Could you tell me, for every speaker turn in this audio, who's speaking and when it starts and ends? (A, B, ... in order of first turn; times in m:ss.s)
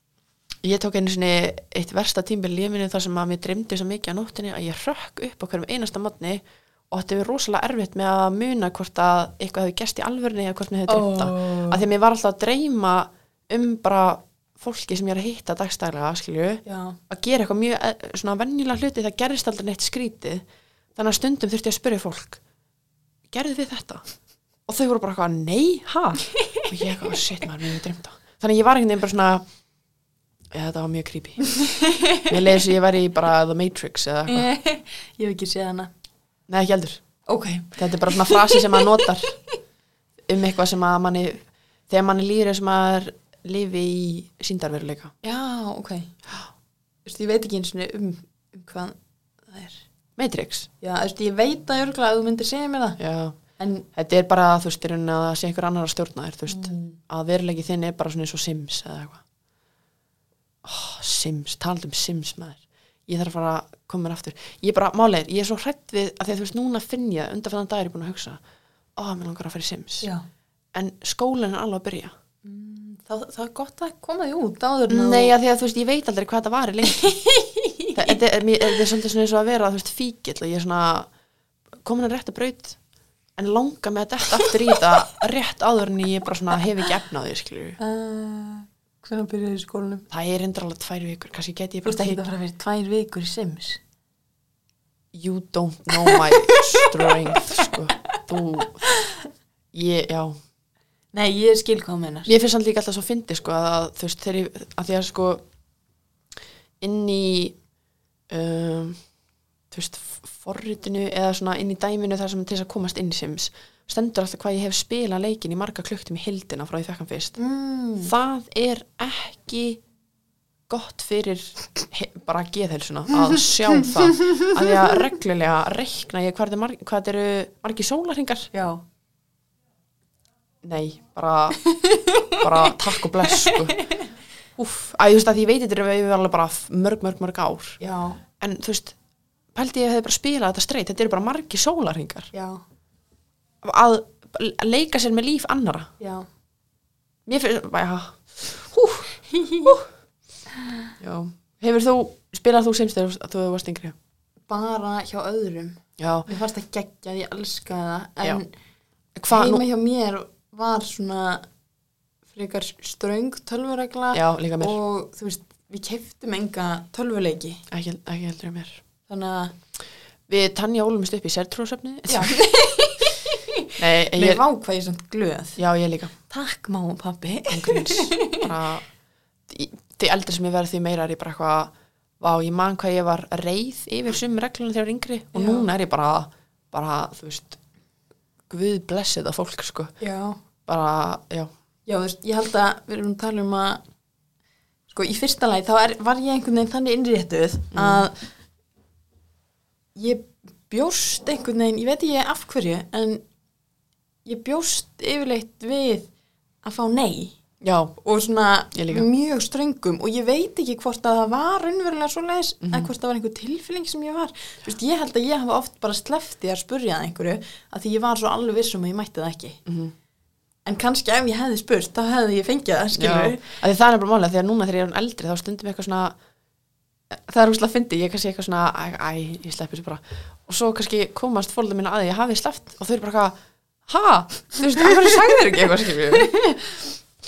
0:00.6-0:20.4 A
0:10.9-0:11.8 B
0:16.6-0:17.0 B
0:21.0-0:22.4 A
0:23.3-0:24.0 A
0:24.7-0:29.4 A
0:26.4-0:26.7 B
0:30.5-0:31.5 A
0:31.5-0:32.3 B
0:32.3-0:34.5 A
0:34.3-0:35.9 B
0:36.5-0:37.0 A
0:37.2-0:39.0 B
0:37.8-0:39.3 A
0:40.3-0:45.1 A
0:45.2-0:46.1 B
0:47.0-0:49.0 B
0:49.5-0:49.8 B
0:50.2-0:50.7 A
0:50.8-0:53.0 B
0:53.0-0:53.4 A
0:53.6-0:53.9 B
0:53.9-0:59.2 A
0:56.5-0:57.0 B
1:00.6-1:08.4 A
1:09.0-1:10.1 A
1:10.7-1:12.1 A
1:12.4-1:15.4 B
1:14.9-1:17.1 A
1:16.9-1:18.1 B
1:17.9-1:21.1 A
1:21.8-1:22.8 A
1:23.4-1:27.8 A
1:27.8-1:30.0 B
1:30.1-1:32.2 A
1:31.8-1:33.8 B
1:35.1-1:38.8 A
1:36.0-1:37.7 B
1:38.8-1:39.2 B
1:39.7-1:40.4 A
1:41.1-1:42.3 B
1:42.2-1:45.4 A
1:46.8-1:47.6 A
1:48.3-1:49.0 A
1:49.7-1:57.4 A
1:57.4-1:58.1 B
1:58.0-1:59.8 A
2:00.7-2:08.5 A
2:03.8-2:04.7 B
2:08.5-2:08.8 B
2:10.6-2:11.6 A
2:11.6-2:12.7 B
2:12.4-2:13.8 A
2:13.2-2:14.1 B
2:14.6-2:17.8 A
2:17.8-2:18.2 B
2:18.4-2:18.9 A
2:19.5-2:22.3 A
2:22.3-2:22.6 B
2:23.6-2:25.9 A
2:26.0-2:26.2 B
2:27.2-2:29.1 A
2:29.3-2:29.8 B
2:30.6-2:30.9 B
2:31.0-2:33.9 A
2:34.5-2:38.5 B
2:36.0-2:36.3 A
2:39.2-2:39.6 A
2:39.3-2:41.4 B
2:42.3-2:47.6 B
2:44.1-2:44.8 A
2:47.7-2:48.8 A
2:49.1-2:49.5 B
2:50.3-2:52.3 A
2:52.1-2:55.6 B
2:53.8-2:54.4 A
2:55.6-2:56.1 A
2:56.3-2:58.5 B
2:57.5-2:58.8 A
2:59.5-3:07.6 A
3:05.3-3:05.7 B
3:08.5-3:09.9 A
3:10.0-3:10.4 B
3:10.7-3:11.5 A
3:11.9-3:13.8 B
3:14.9-3:18.2 B
3:17.7-3:18.1 A
3:19.9-3:23.2 B
3:24.2-3:26.1 B
3:26.6-3:27.4 B
3:27.6-3:27.9 A
3:28.0-3:39.6 B
3:28.7-3:29.1 A
3:32.6-3:32.9 A
3:39.6-3:39.9 A
3:40.6-3:43.4 B
3:43.0-3:46.1 A
3:47.1-3:53.4 A
3:53.9-3:56.3 A
3:56.1-3:56.9 B